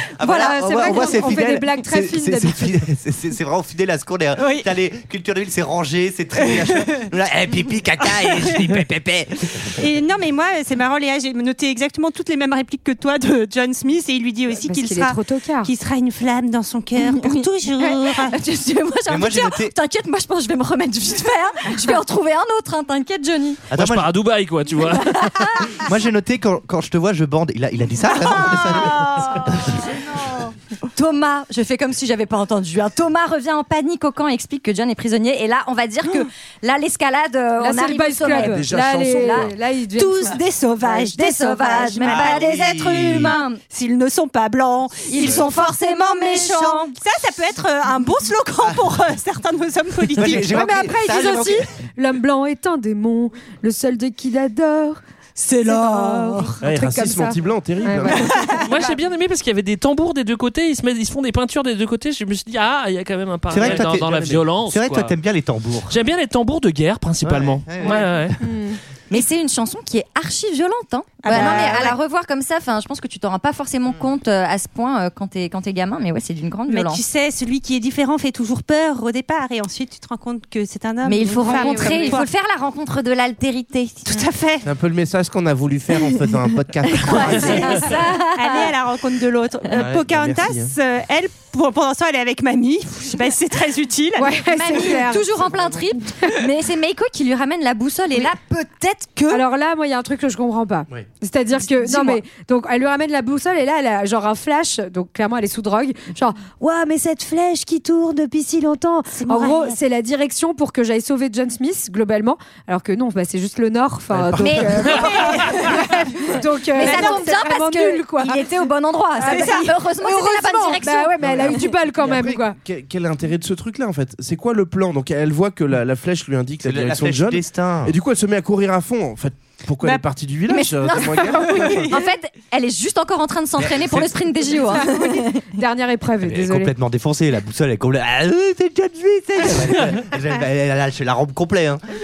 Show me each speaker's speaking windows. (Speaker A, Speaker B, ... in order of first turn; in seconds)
Speaker A: 0.2-9.8, 19.1-19.7, 23.7-24.1, 25.8-29.9, 42.0-43.4, 50.1-51.7, 63.5-66.0, 67.2-68.3, 71.3-71.8, 126.6-128.0, 133.7-134.1, 136.2-141.8
Speaker B: 0.2-2.8, 14.5-15.7, 37.6-41.1, 50.3-55.0, 55.5-59.0, 68.4-68.8, 81.3-82.2, 94.2-95.5, 99.3-118.5, 119.2-122.6, 134.7-136.7
Speaker C: 4.4-4.7, 6.4-7.0, 8.2-8.6, 9.8-18.4, 40.0-50.6, 55.5-56.5, 71.2-72.0, 76.7-82.3, 84.1-84.6, 87.0-94.3, 109.2-109.8, 115.1-115.8, 116.8-117.5, 119.3-119.7, 131.4-131.9
Speaker D: 17.0-23.6, 25.0-25.8, 28.2-29.5, 30.9-39.5, 41.1-43.6, 45.0-47.0, 69.1-77.0, 81.0-84.2, 86.9-88.7, 94.5-99.4, 101.6-102.2, 114.4-115.8, 116.7-121.7, 130.5-135.4
Speaker E: 23.7-25.6, 58.6-65.1, 65.9-68.4
Speaker F: 38.3-39.6, 56.6-58.3, 63.5-64.4, 84.6-87.9, 89.7-90.7, 114.1-115.0, 121.2-131.9